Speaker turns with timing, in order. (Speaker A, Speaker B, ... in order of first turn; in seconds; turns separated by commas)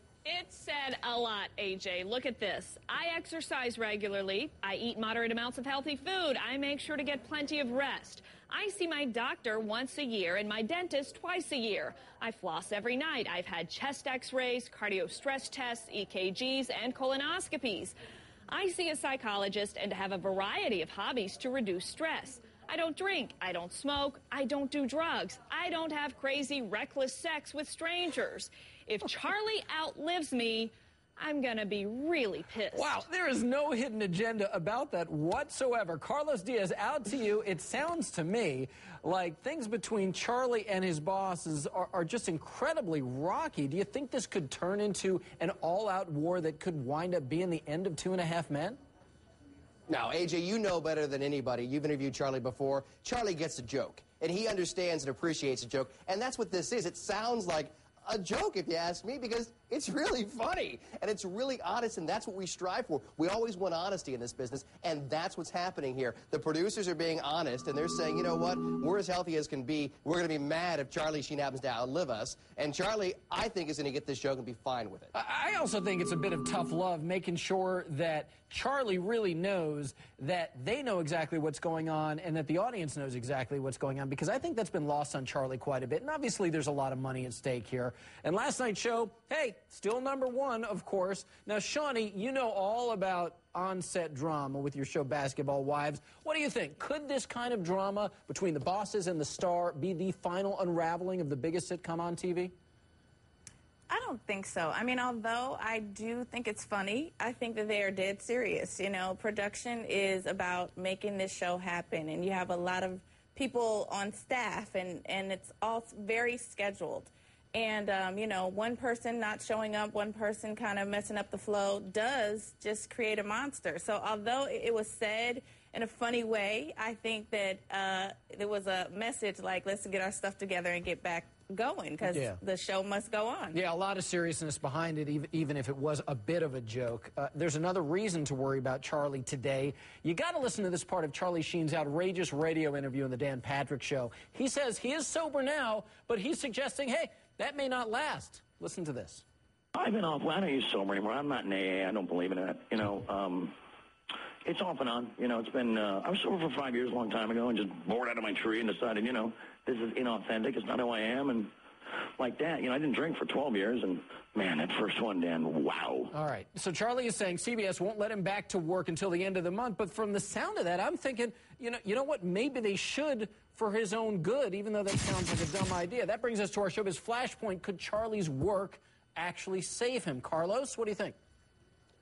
Speaker A: 0.2-17.9, Speaker A: 18.5-33.0, Speaker B: 32.7-48.8, Speaker C: 49.9-75.1, Speaker B: 75.1-102.5, Speaker D: 103.9-133.6, Speaker B: 132.1-132.4, Speaker B: 133.5-149.2, Speaker E: 149.7-153.5, Speaker E: 154.4-161.5, Speaker E: 162.2-166.1, Speaker B: 166.1-181.1